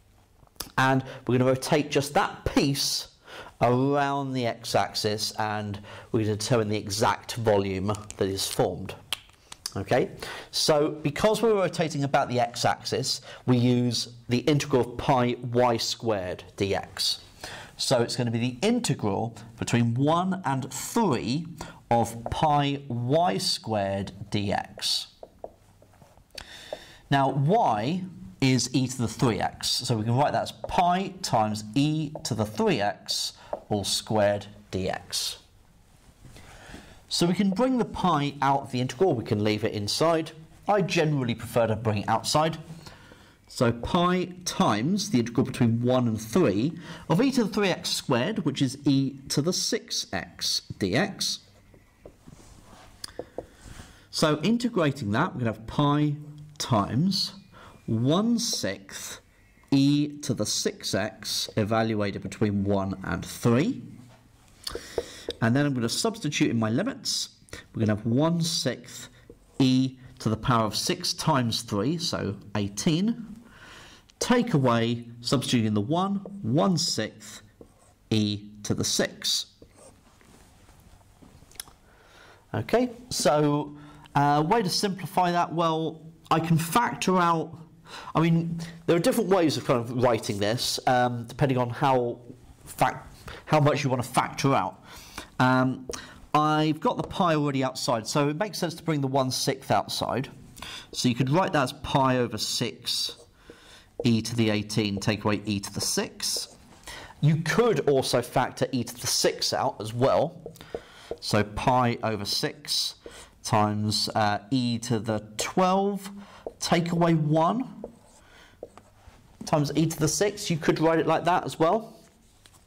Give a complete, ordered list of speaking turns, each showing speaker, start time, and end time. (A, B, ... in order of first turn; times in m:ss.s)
0:00.8-0:09.0 A
0:09.8-0:17.2 A
0:17.8-0:25.1 A
0:27.1-0:35.4 A
0:37.1-0:42.6 A
0:43.5-0:51.4 A
0:54.1-0:57.4 A
0:57.9-1:03.9 A
1:05.4-1:13.4 A
1:14.2-1:17.4 A
1:18.1-1:19.5 A
1:22.5-1:34.8 A
1:35.4-1:40.3 A
1:40.9-1:43.2 A
1:44.0-1:46.5 A
1:47.2-1:50.4 A
1:51.2-1:57.9 A
1:59.4-2:02.0 A